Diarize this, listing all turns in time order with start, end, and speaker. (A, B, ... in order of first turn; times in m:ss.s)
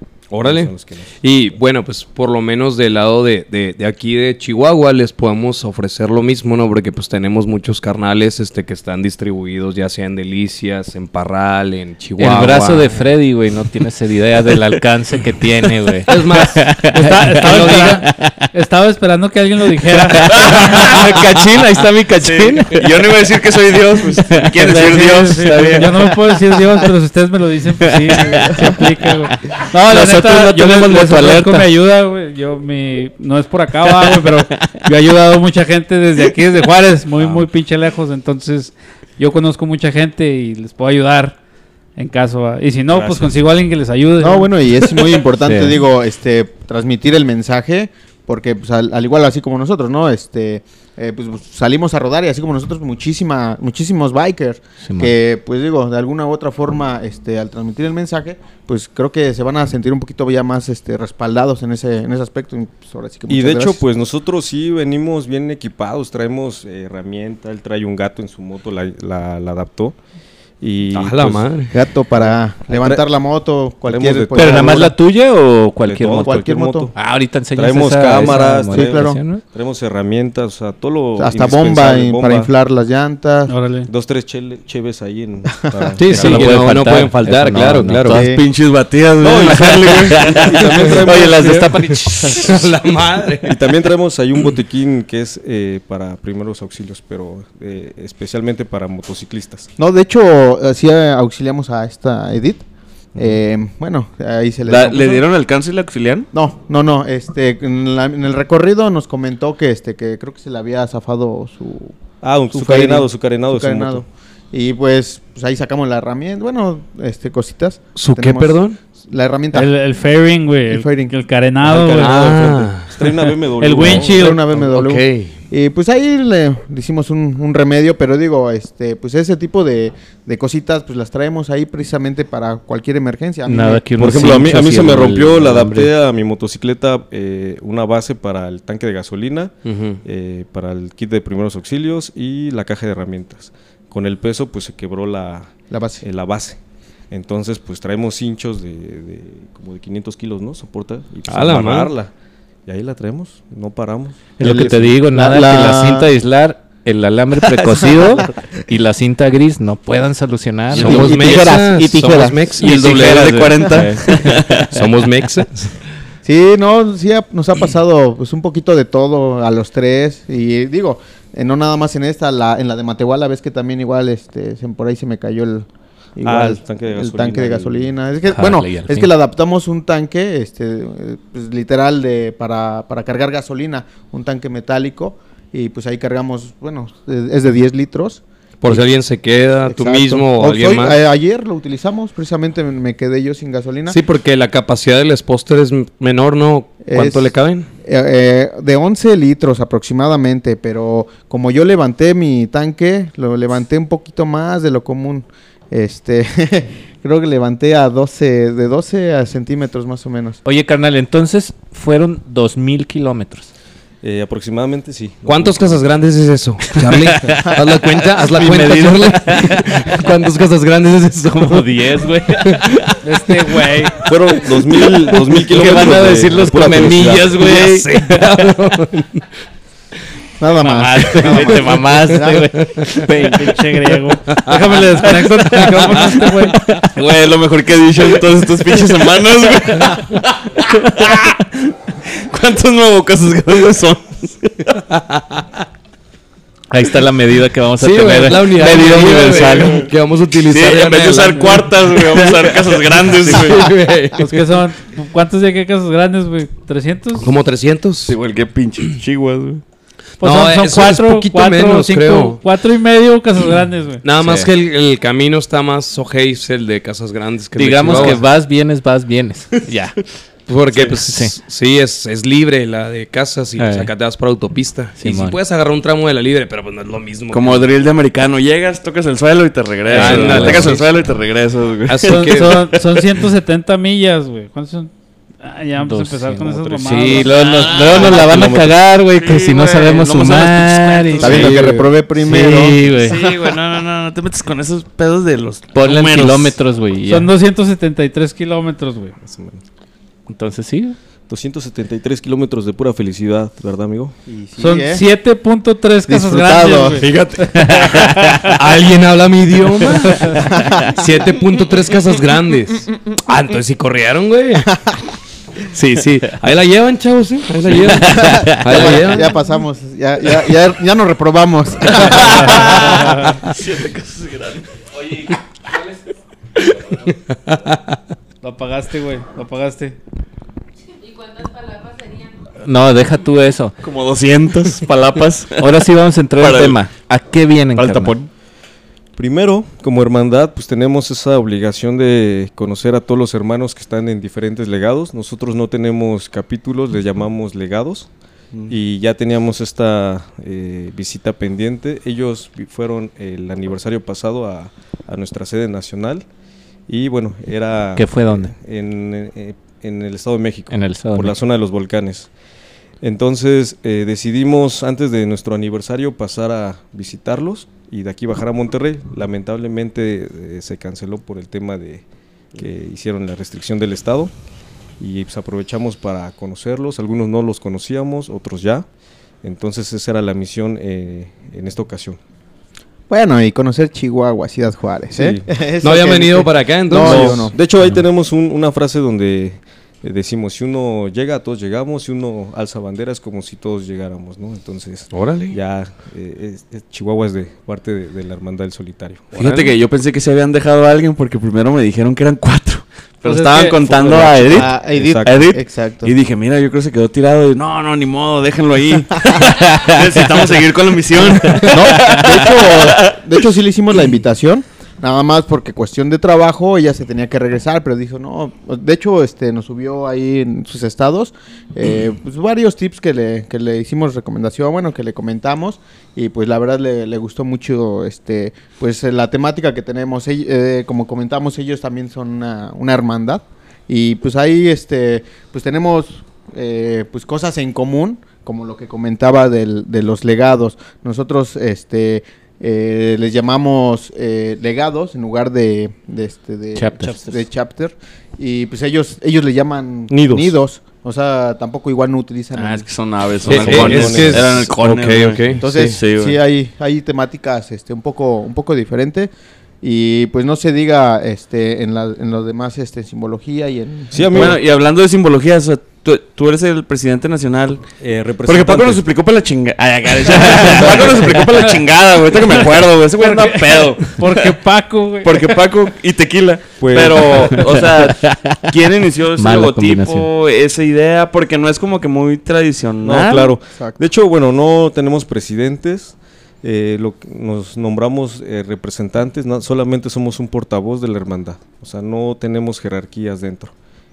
0:00.3-0:13.0 A
0:00.4-0:01.2 B
0:12.2-0:18.4 C
0:16.1-0:16.8 A
0:16.8-0:20.9 D
0:17.3-0:18.0 A
0:20.1-0:22.9 C
0:20.5-0:20.9 E
0:22.2-0:26.0 E
0:24.2-0:26.4 C
0:24.8-0:41.4 D
0:27.8-0:31.7 C
0:37.2-0:37.4 B
0:42.0-0:44.5 D
0:42.9-0:43.3 B
0:44.2-1:03.8 F
0:45.4-0:45.8 C
0:54.8-0:55.1 C
1:03.3-1:10.0 B
1:10.6-1:11.5 B
1:10.9-1:11.8 A
1:11.7-1:14.9 F
1:12.2-1:13.0 B
1:13.8-1:14.9 B
1:14.3-1:19.4 C
1:15.8-1:16.9 B
1:16.2-1:16.9 F
1:17.5-1:22.5 B
1:18.2-1:19.2 F
1:21.2-1:23.5 F
1:23.5-1:23.9 D
1:23.9-1:26.6 B
1:25.6-1:25.9 F
1:26.0-1:28.2 A
1:26.1-1:28.4 C
1:28.1-1:28.4 F
1:28.1-1:31.5 E
1:29.2-1:32.5 B
1:30.1-1:32.5 C
1:32.1-1:33.6 A
1:33.4-1:39.7 B
1:39.8-1:42.6 F
1:43.1-1:45.2 F
1:44.6-1:46.3 E
1:46.3-1:52.0 F
1:52.2-1:54.0 B
1:52.5-1:59.7 F
1:58.0-1:58.8 A
1:59.5-2:02.3 D
2:00.7-2:01.1 F
2:01.6-2:04.4 B
2:02.0-2:03.4 A
2:03.6-2:04.4 D
2:03.8-2:14.6 F
2:13.4-2:15.9 C
2:14.0-2:26.6 B
2:19.6-2:20.0 A
2:25.7-2:26.0 F
2:27.1-2:32.1 B
2:31.3-2:31.9 A
2:32.6-2:34.2 B
2:34.4-2:41.2 C
2:34.4-2:36.1 F
2:37.5-2:38.3 F
2:40.7-2:43.5 A
2:40.8-2:41.0 E
2:40.8-2:42.4 F
2:42.6-2:44.7 E
2:42.6-2:44.6 C
2:44.7-2:45.7 A
2:46.2-3:08.8 F
2:56.2-2:57.9 B
2:58.3-2:59.1 C
3:08.6-3:11.0 A
3:09.7-3:14.0 F
3:13.9-3:17.7 A
3:16.8-3:17.3 F
3:17.8-3:30.4 F
3:30.4-3:33.5 C
3:34.0-3:35.8 B
3:35.2-3:42.9 A
3:36.8-3:37.6 C
3:38.2-3:39.8 C
3:41.3-3:42.8 C
3:43.0-3:44.0 D
3:44.0-3:47.4 B
3:44.8-3:48.3 C
3:47.3-3:49.2 A
3:50.4-3:52.5 F
3:50.6-3:53.3 C
3:51.2-3:51.6 D
3:52.9-3:56.6 D
3:54.3-3:56.6 A
3:56.9-4:04.8 E
4:04.9-4:05.5 A
4:06.7-4:09.8 C
4:07.8-4:14.5 A
4:08.6-4:09.9 E
4:10.4-4:13.7 E
4:14.1-4:17.3 D
4:17.2-4:18.2 A
4:18.0-4:19.6 E
4:20.2-4:24.0 D
4:20.2-4:22.4 A
4:24.0-4:28.2 A
4:24.2-4:24.5 C
4:27.6-4:30.0 C
4:30.5-4:37.7 A
4:30.8-4:31.3 C
4:33.6-4:33.9 C
4:35.0-4:35.4 C
4:37.3-4:42.8 E
4:39.9-4:40.8 C
4:39.9-4:40.9 A
4:41.9-4:42.8 A
4:42.0-4:44.9 D
4:45.4-4:47.4 D
4:45.8-4:53.2 C
4:46.8-4:47.2 A
4:47.2-4:51.7 E
4:48.2-4:48.6 A
4:51.2-4:52.8 F
4:52.8-4:56.6 E
4:55.7-4:57.3 C
4:57.0-4:59.1 D
4:59.2-4:59.6 B
5:00.3-5:01.0 C
5:01.3-5:04.1 B
5:04.3-5:05.0 F
5:04.6-5:08.5 D
5:06.1-5:07.0 F
5:07.0-5:14.8 A
5:07.7-5:08.4 C
5:10.5-5:10.9 F
5:15.7-5:19.4 A
5:18.0-5:22.9 F
5:18.1-5:18.6 C
5:22.4-5:25.4 E
5:22.4-5:23.3 D
5:27.1-5:28.0 A
5:28.4-5:30.0 D
5:32.6-5:33.8 C
5:33.8-5:35.8 E
5:35.6-5:38.2 C
5:36.4-5:36.8 E
5:37.7-5:38.3 E
5:39.2-5:48.1 B
5:48.7-5:56.2 B
5:56.9-6:02.3 B
5:58.0-5:58.5 C
6:00.7-6:01.4 C
6:03.0-6:14.3 B
6:15.0-6:18.8 B
6:19.4-6:22.2 B
6:23.1-6:27.6 F
6:25.1-6:25.4 B
6:25.8-6:27.5 A
6:26.9-6:39.5 B
6:35.1-6:35.6 A
6:39.3-6:53.2 E
6:39.4-6:39.7 A
6:43.2-6:43.8 D
6:43.8-6:45.4 B
6:44.5-6:46.1 F
6:51.6-7:32.9 F
7:26.8-7:27.3 C
7:30.1-7:30.5 B
7:32.6-7:36.4 E
7:33.4-7:35.6 A
7:33.5-7:34.7 B
7:35.6-7:39.3 F
7:39.8-7:44.5 F
7:44.1-7:44.6 B
7:44.3-7:47.8 E
7:48.0-7:49.0 B
7:48.4-7:54.5 E
7:50.7-7:51.2 B
7:53.2-7:55.5 D
7:55.2-8:03.6 E
7:56.8-7:57.7 B
7:58.2-7:58.6 C
7:59.4-8:00.3 C
8:03.0-8:13.7 B
8:03.7-8:04.0 F